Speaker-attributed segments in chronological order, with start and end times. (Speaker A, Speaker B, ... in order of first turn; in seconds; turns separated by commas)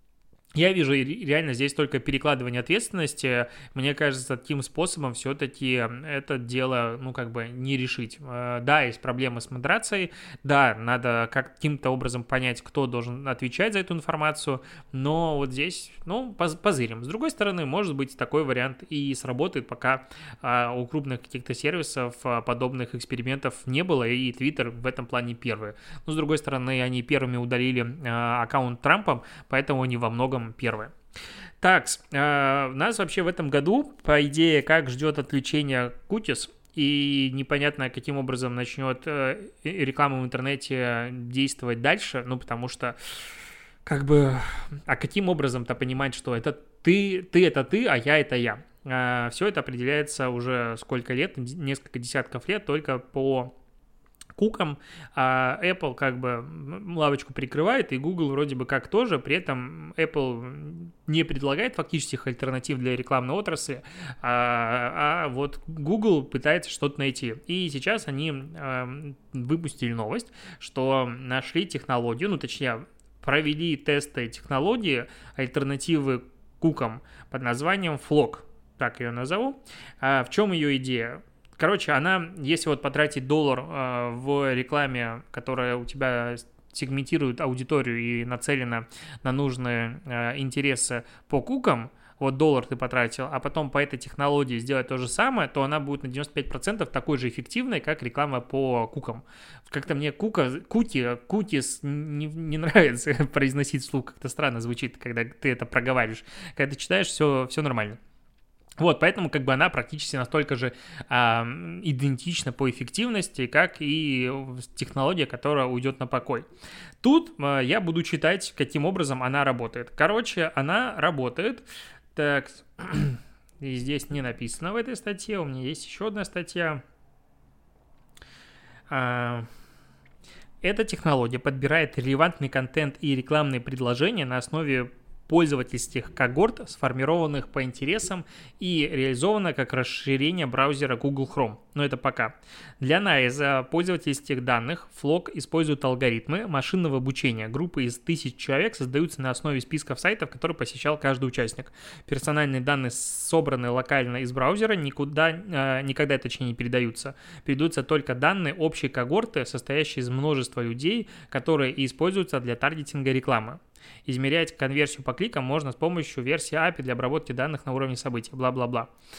Speaker A: 0.6-30.9, Speaker A: 31.6-43.0, Speaker A: 43.9-53.5, Speaker A: 54.4-108.0, Speaker A: 108.8-116.5, Speaker A: 117.0-126.8, Speaker A: 128.9-129.5, Speaker A: 130.6-168.9